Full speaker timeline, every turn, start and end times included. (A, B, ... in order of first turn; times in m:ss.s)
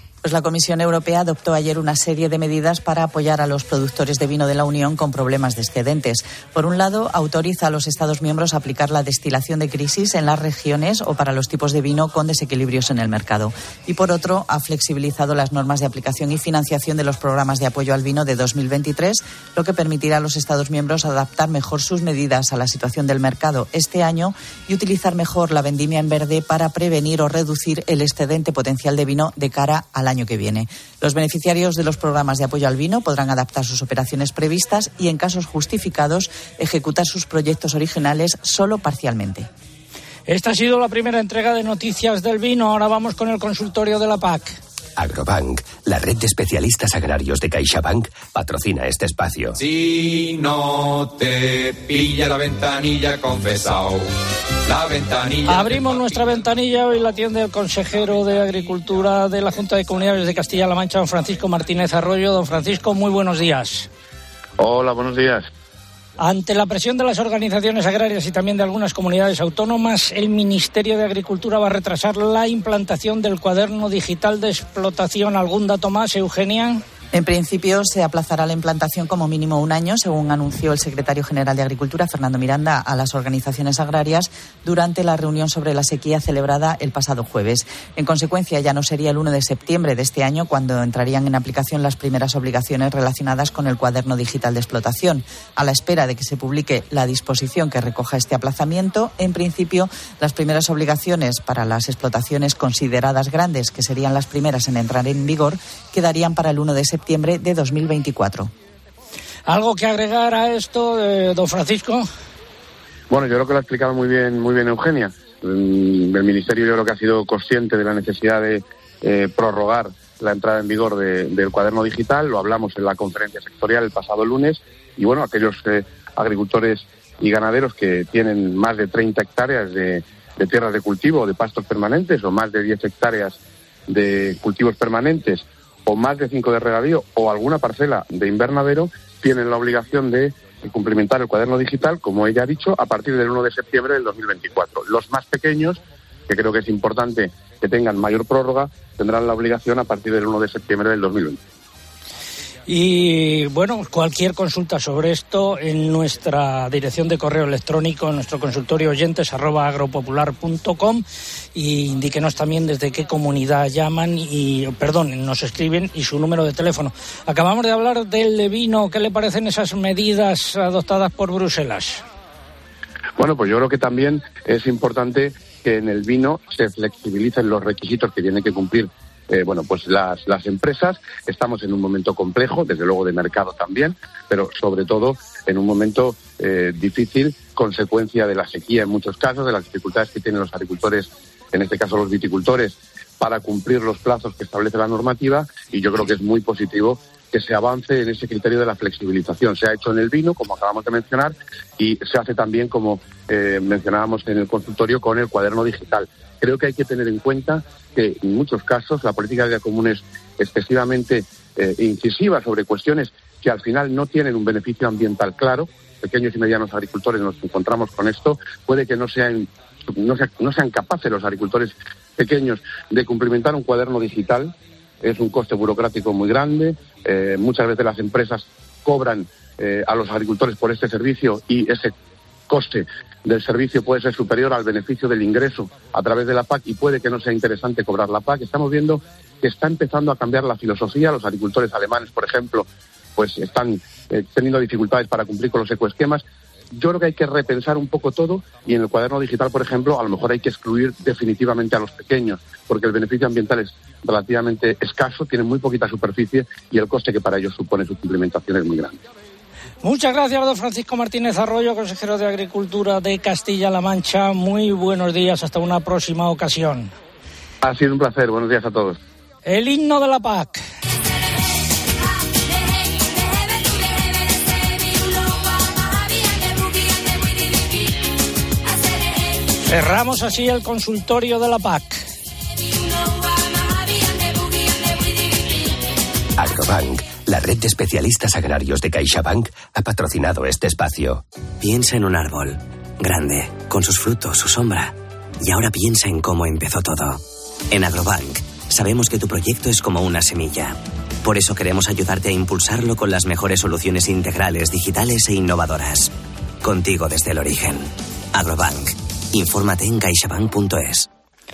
0:00.2-0:39.5 A
0:40.3-0:44.6 B
0:45.0-0:49.6 C
0:49.6-0:54.1 D
0:54.6-0:56.4 D
0:55.5-1:03.9 B
1:04.6-1:05.5 E
1:06.2-1:16.8 B
1:17.1-1:48.5 A
1:49.5-1:52.1 B
1:53.1-2:31.4 E
2:32.7-2:41.0 B
2:41.6-2:52.0 B
2:53.2-3:51.9 E
3:52.5-4:06.2 E
4:06.8-4:19.0 E
4:19.8-4:26.9 B
4:27.6-4:29.0 E
4:29.5-4:30.6 B
4:39.7-4:42.0 B
4:46.4-4:51.2 C
4:51.6-5:11.1 F